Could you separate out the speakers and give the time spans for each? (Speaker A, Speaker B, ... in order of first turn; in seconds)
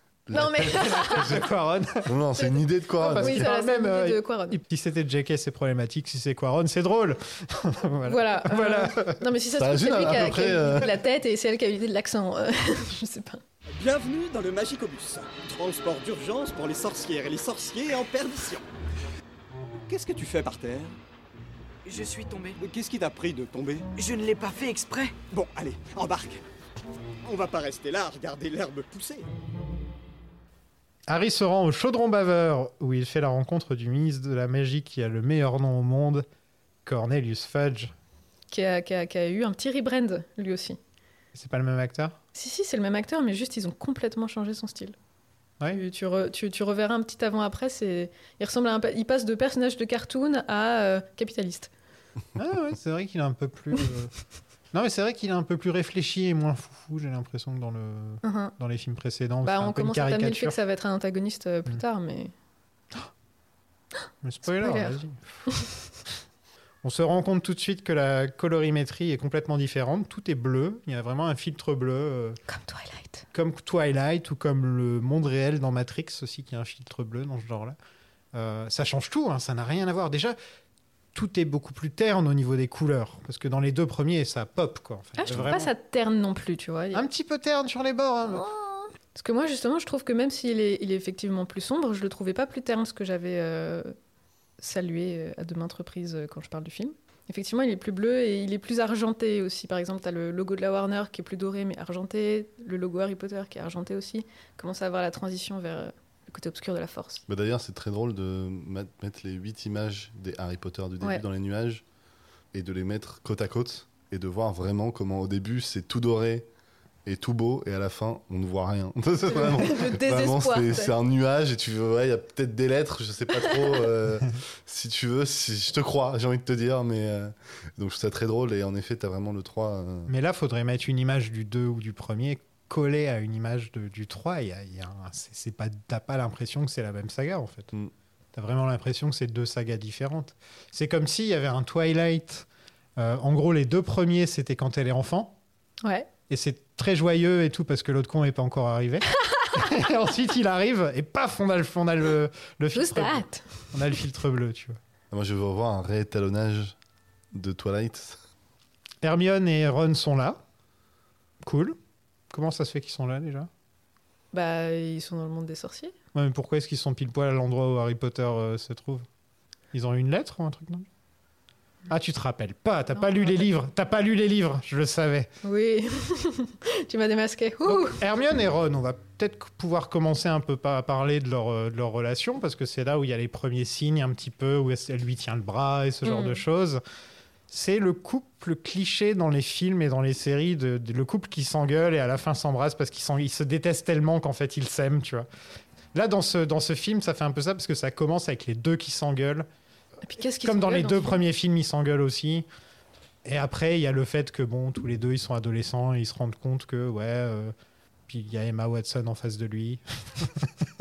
Speaker A: 0.3-1.4, 2.1-3.5, 9.6-10.9, 107.3-111.8, 112.5-116.5, 117.1-130.1, 155.1-156.8, 157.3-158.2
Speaker B: 0.3-1.5, 2.4-4.6, 8.1-13.4, 38.5-40.8, 42.4-45.0, 45.7-51.7, 58.2-58.5, 59.4-62.3, 64.5-65.7, 72.5-73.2, 85.2-87.0, 88.3-94.0, 94.6-107.2, 119.3-120.9, 145.8-146.1, 152.8-153.5, 164.3-165.9, 173.0-173.5, 175.4-178.0, 186.0-186.4, 200.1-201.2
Speaker C: 0.8-2.1, 3.0-9.2, 31.1-36.3, 36.9-37.9, 41.4-42.1, 52.4-54.1, 54.7-60.6, 64.2-65.5, 66.8-72.4, 73.3-77.8, 78.3-80.4, 81.2-85.7, 86.9-88.4, 130.1-137.7, 138.3-142.5, 143.0-145.3, 146.3-154.8, 159.0-160.4, 161.4-161.8, 162.3-163.5, 166.1-169.1, 169.7-170.9, 171.9-175.3, 177.7-186.8, 187.5-195.3, 195.9-199.5, 200.4-202.5, 203.2-207.5, 208.1-210.5
Speaker D: 13.7-18.6, 19.9-21.0, 22.6-23.9, 25.3-26.4, 27.2-29.3
Speaker E: 21.9-22.6, 24.0-25.2